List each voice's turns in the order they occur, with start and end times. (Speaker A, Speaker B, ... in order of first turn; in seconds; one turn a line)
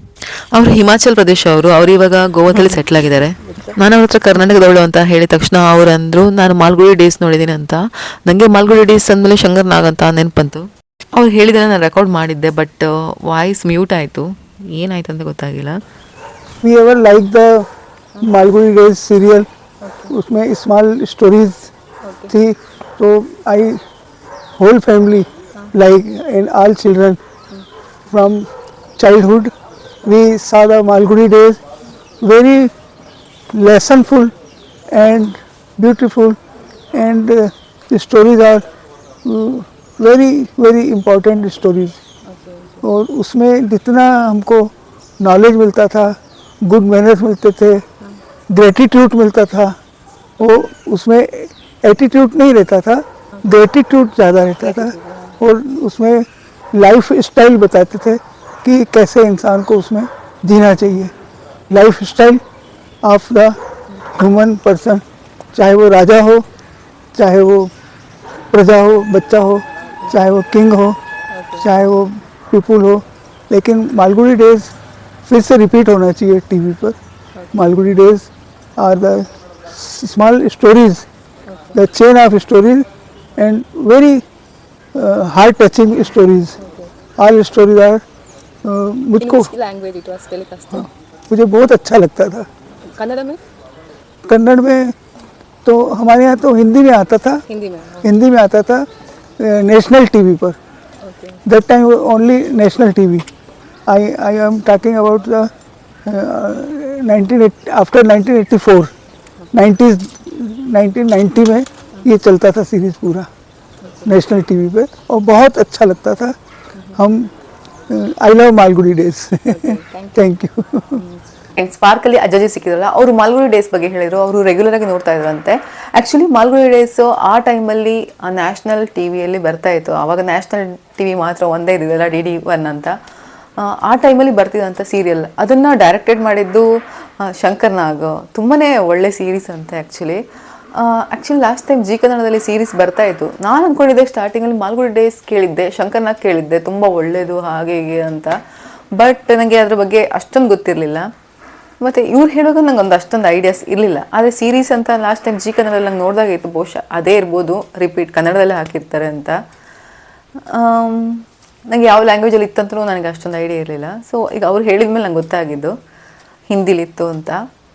Speaker A: 0.5-15.8
Speaker B: 16.6-17.6
Speaker B: 18.2-19.5
Speaker C: 19.8-20.1
Speaker B: 20.1-21.7
Speaker C: 22.0-22.3
Speaker B: 22.3-23.8
Speaker B: 24.6-27.2
Speaker B: 28.1-28.5
Speaker B: 29.0-29.5
Speaker B: 30.0-31.6
Speaker B: 32.2-32.7
Speaker B: 33.5-34.3
Speaker B: 34.9-36.4
Speaker B: 36.9-38.6
Speaker B: 39.2-42.0
Speaker C: 42.3-42.8
Speaker B: 42.8-47.8
Speaker B: 48.5-49.7
Speaker B: 50.4-61.1
Speaker C: 54.8-55.1
Speaker B: 61.7-62.4
Speaker B: 63.0-63.6
Speaker B: 64.1-65.0
Speaker B: 65.5-66.5
Speaker B: 67.1-67.7
Speaker B: 68.5-71.0
Speaker C: 71.3-71.7
Speaker B: 71.6-74.7
Speaker B: 75.3-77.0
Speaker B: 77.5-81.0
Speaker B: 81.7-82.8
Speaker B: 83.4-84.2
Speaker B: 84.9-86.5
Speaker B: 87.2-88.0
Speaker B: 88.6-89.5
Speaker C: 89.2-90.6
Speaker B: 90.8-92.5
Speaker C: 92.9-93.4
Speaker B: 94.3-94.9
Speaker B: 95.6-97.4
Speaker C: 97.5-98.0
Speaker B: 98.0-98.8
Speaker B: 99.4-100.6
Speaker C: 101.0-101.4
Speaker B: 101.5-103.2
Speaker B: 103.9-105.5
Speaker B: 106.0-108.9
Speaker B: 109.5-113.3
Speaker B: 114.0-116.3
Speaker B: 117.0-117.3
Speaker B: 117.9-121.0
Speaker C: 119.5-120.1
Speaker A: 121.5-132.9
Speaker A: 133.6-136.7
Speaker A: 137.2-140.2
Speaker A: 140.8-148.3
Speaker A: 149.0-151.1
Speaker A: 151.8-159.3
Speaker A: 160.5-165.7
Speaker A: 166.5-167.4